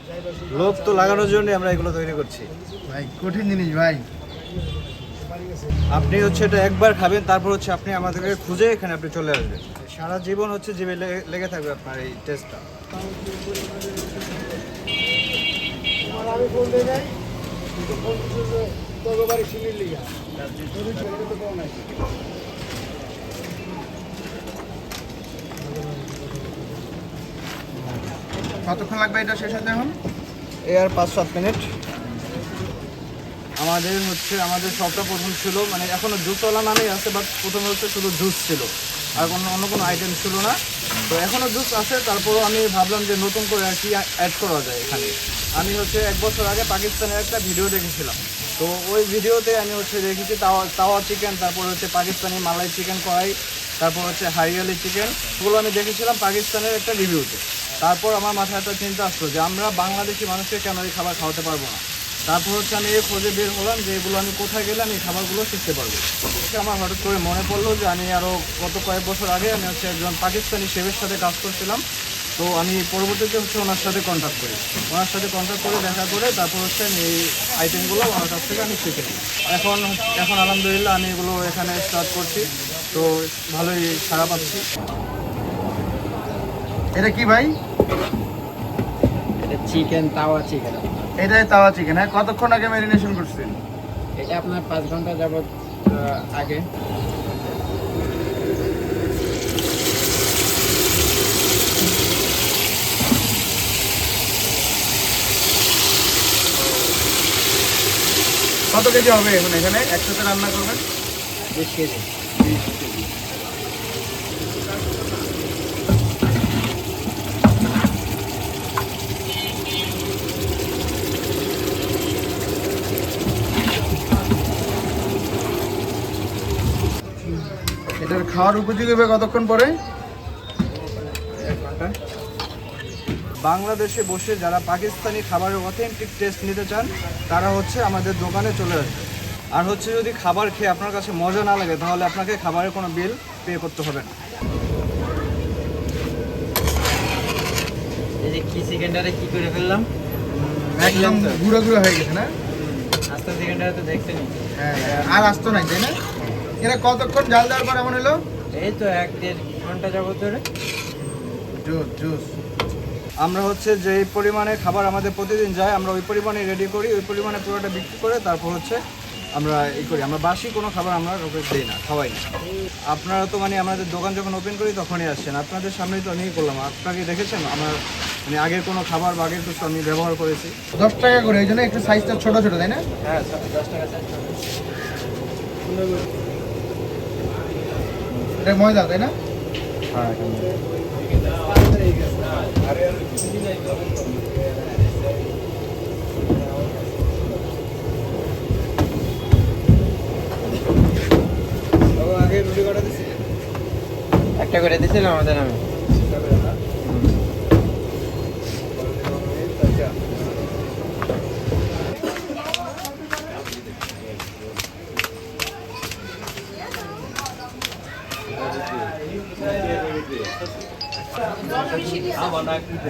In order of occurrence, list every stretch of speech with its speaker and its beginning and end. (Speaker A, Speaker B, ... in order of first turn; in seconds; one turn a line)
Speaker A: 0.5-2.5
Speaker B: 2.9-4.0
Speaker A: 5.9-12.6
Speaker B: 28.6-30.0
Speaker A: 30.7-31.7
Speaker A: 33.6-71.8
Speaker A: 72.4-84.6
Speaker B: 86.9-87.5
Speaker C: 89.4-91.0
Speaker B: 91.2-93.6
Speaker C: 94.2-96.7
Speaker B: 108.7-110.8
Speaker C: 111.5-112.1
Speaker B: 128.0-129.7
Speaker C: 131.1-131.9
Speaker A: 133.4-144.1
Speaker C: 148.2-149.9
Speaker B: 150.3-152.3
Speaker C: 150.8-151.4
Speaker C: 152.4-154.3
Speaker B: 154.6-155.9
Speaker C: 154.9-155.2
Speaker B: 156.6-158.2
Speaker C: 158.5-160.4
Speaker B: 161.5-162.3
Speaker A: 163.2-168.8
Speaker A: 169.3-172.2
Speaker A: 172.9-180.6
Speaker B: 180.7-182.8
Speaker C: 183.0-184.4
Speaker B: 188.4-189.1
Speaker C: 189.9-192.6
Speaker A: 194.3-194.7
Speaker C: 196.5-196.9
Speaker A: 201.9-203.2
Speaker C: 204.4-205.6
Speaker A: 206.1-206.6
Speaker C: 206.8-207.2
Speaker A: 208.8-210.0